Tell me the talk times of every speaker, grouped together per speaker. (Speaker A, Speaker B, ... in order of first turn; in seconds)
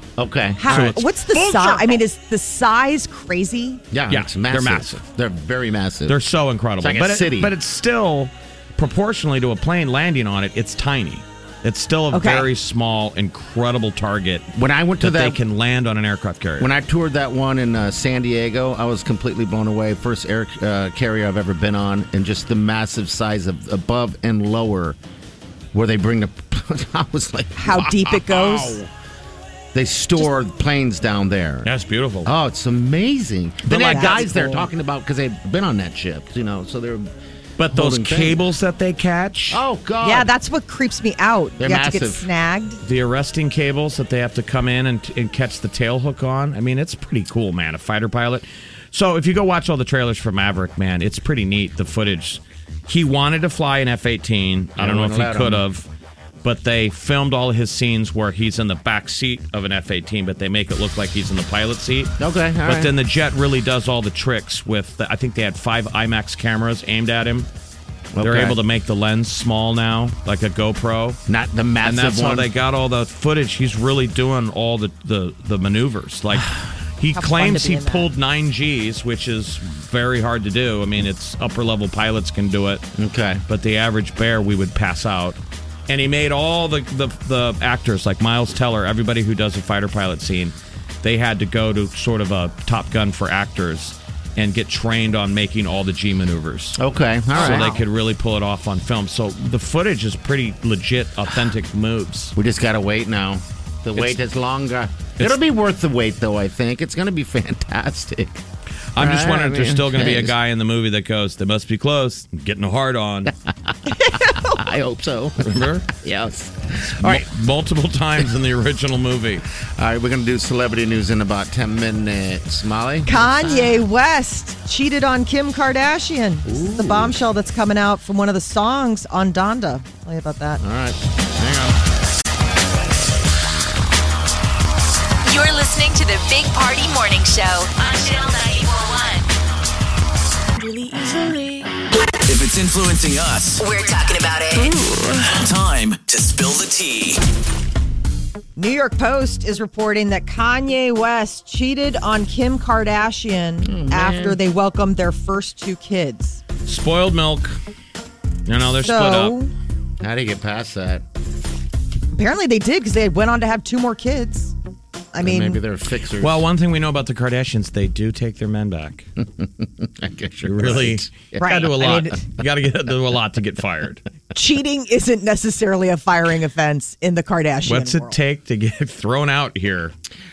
Speaker A: 0.2-2.0, 3.9-6.2, 6.8-7.5, 14.5-15.4, 16.6-25.0, 25.7-28.8, 29.7-31.7, 32.2-37.1, 37.7-38.4, 39.5-40.3, 41.6-42.3, 54.8-55.6, 62.2-62.9, 68.1-68.6, 71.3-72.5, 83.0-83.4, 96.8-97.8, 102.3-108.4, 109.0-110.4, 113.3-117.3, 119.7-123.8, 126.5-127.2, 130.6-131.8, 153.6-154.4, 160.0-161.1, 165.2-166.5, 169.2-171.4
Speaker B: 0.6-3.8, 12.1-12.5, 27.6-28.8, 33.9-34.7, 40.0-42.8, 77.1-78.1, 97.4-97.7, 113.9-114.6, 123.1-130.6, 148.6-156.4, 158.8-159.5, 162.1-164.5, 165.1-165.6, 171.4-172.2, 174.3-178.2
Speaker C: 0.7-1.1, 4.1-5.0, 6.1-14.5, 15.0-16.7, 31.6-32.3, 33.7-34.4, 37.6-39.6, 42.8-55.9, 56.4-67.5, 68.2-71.2, 71.8-82.8, 83.5-96.8, 97.3-102.3, 109.0-113.3, 115.4-115.9, 117.0-119.4, 156.7-157.6, 158.5-159.3, 166.2-169.1, 170.4-174.1, 177.7-179.9
Speaker D: 135.3-139.3, 143.6-144.8
Speaker E: 142.3-143.6, 144.8-147.2